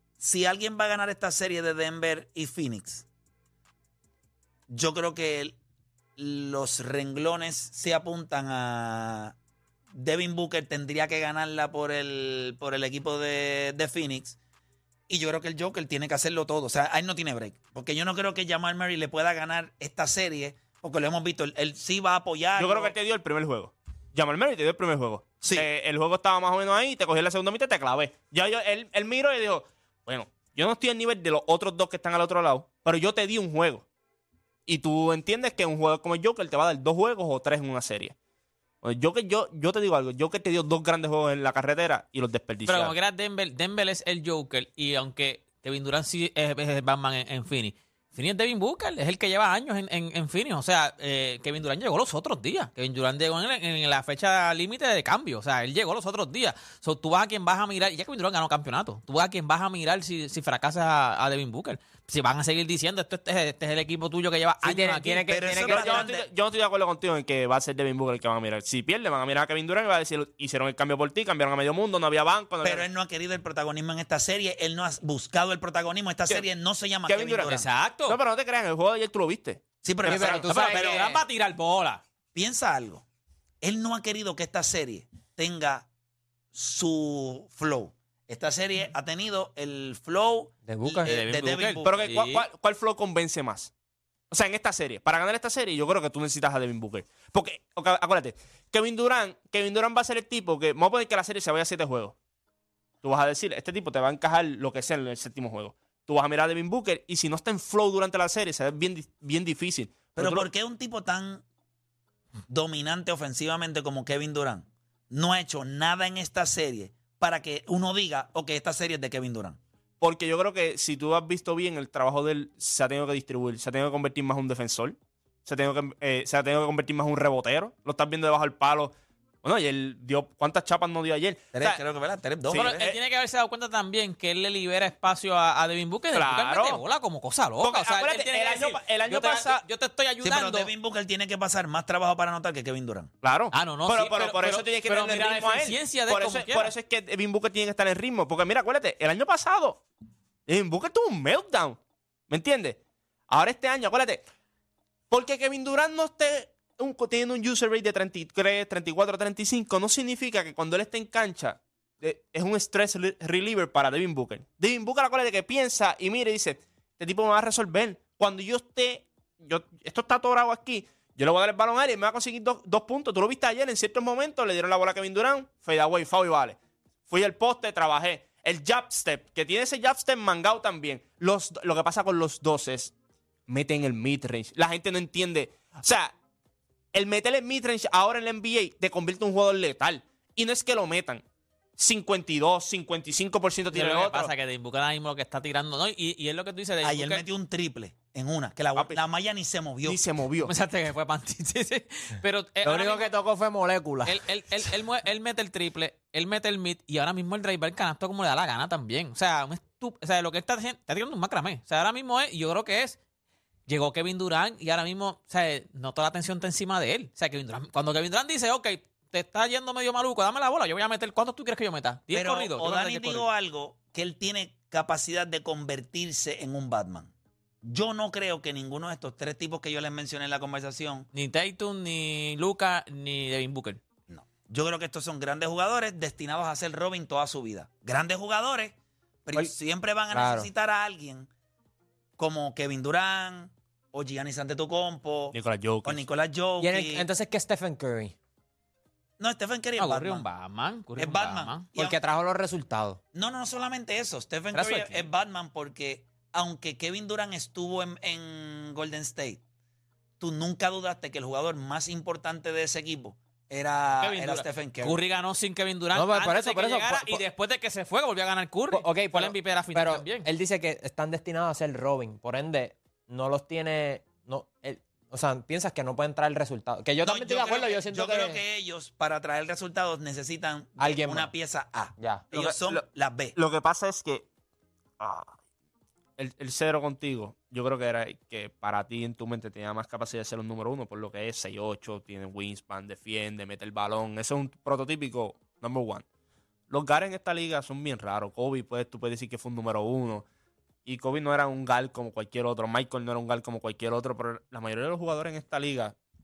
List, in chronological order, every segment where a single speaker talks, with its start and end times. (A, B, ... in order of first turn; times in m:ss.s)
0:00.2-0:03.1 A
0:04.7-0:05.6 A
0:06.2-0:09.4 A
0:09.9-0:14.4 A
0:15.1-0:23.0 A
0:22.6-0:33.8 B
0:25.4-0:25.7 A
0:34.7-0:38.1 B
0:38.8-0:42.9 B
0:42.7-1:05.3 C
1:04.6-1:06.1 D
1:05.3-1:06.2 A
1:05.6-1:12.9 B
1:12.6-1:17.6 A
1:17.1-1:17.6 B
1:17.5-1:18.2 C
1:18.1-1:20.5 B
1:19.8-1:20.9 A
1:20.0-1:21.2 D
1:20.5-1:22.0 C
1:22.3-1:23.0 A
1:23.6-1:25.9 A
1:26.5-1:32.0 A
1:30.6-1:31.1 D
1:31.1-1:32.4 C
1:31.8-1:33.7 B
1:34.3-1:42.1 B
1:43.0-1:50.5 B
1:50.2-1:51.4 A
1:52.5-1:59.6 A
2:00.0-2:11.8 B
2:11.5-2:12.7 A
2:12.5-2:13.0 B
2:12.5-2:20.7 C
2:16.1-2:16.8 B
2:17.6-2:19.6 B
2:20.2-2:23.1 A
2:23.2-2:29.8 B
2:23.5-2:26.7 C
2:30.5-2:31.8 B
2:32.3-2:32.8 B
2:33.3-2:34.2 B
2:35.1-2:56.6 B
2:57.1-3:02.9 B
3:03.5-3:06.1 B
3:06.9-3:11.2 B
3:11.8-3:14.3 B
3:13.7-3:17.2 C
3:16.8-3:20.0 A
3:19.8-3:20.5 B
3:20.4-3:23.1 C
3:22.6-3:24.2 D
3:24.1-3:33.0 C
3:33.7-3:43.2 C
3:42.1-3:47.1 A
3:47.6-3:51.1 A
3:51.1-3:53.8 C
3:54.1-4:01.3 A
4:00.1-4:00.5 D
4:02.2-4:07.1 A
4:05.3-4:06.0 B
4:06.6-4:08.1 D
4:09.2-4:10.3 A
4:09.8-4:11.6 C
4:11.0-4:12.0 A
4:11.8-4:13.0 D
4:13.1-4:19.4 A
4:14.5-4:15.1 C
4:20.2-4:25.0 A
4:24.0-4:30.3 C
4:25.9-4:27.2 D
4:28.7-4:38.4 D
4:37.0-4:43.4 A
4:40.8-4:41.3 D
4:42.0-4:42.2 D
4:42.3-4:42.8 B
4:43.4-4:44.2 B
4:45.0-4:45.3 B
4:46.2-4:56.0 B
4:56.7-5:00.2 B
5:00.8-5:06.0 B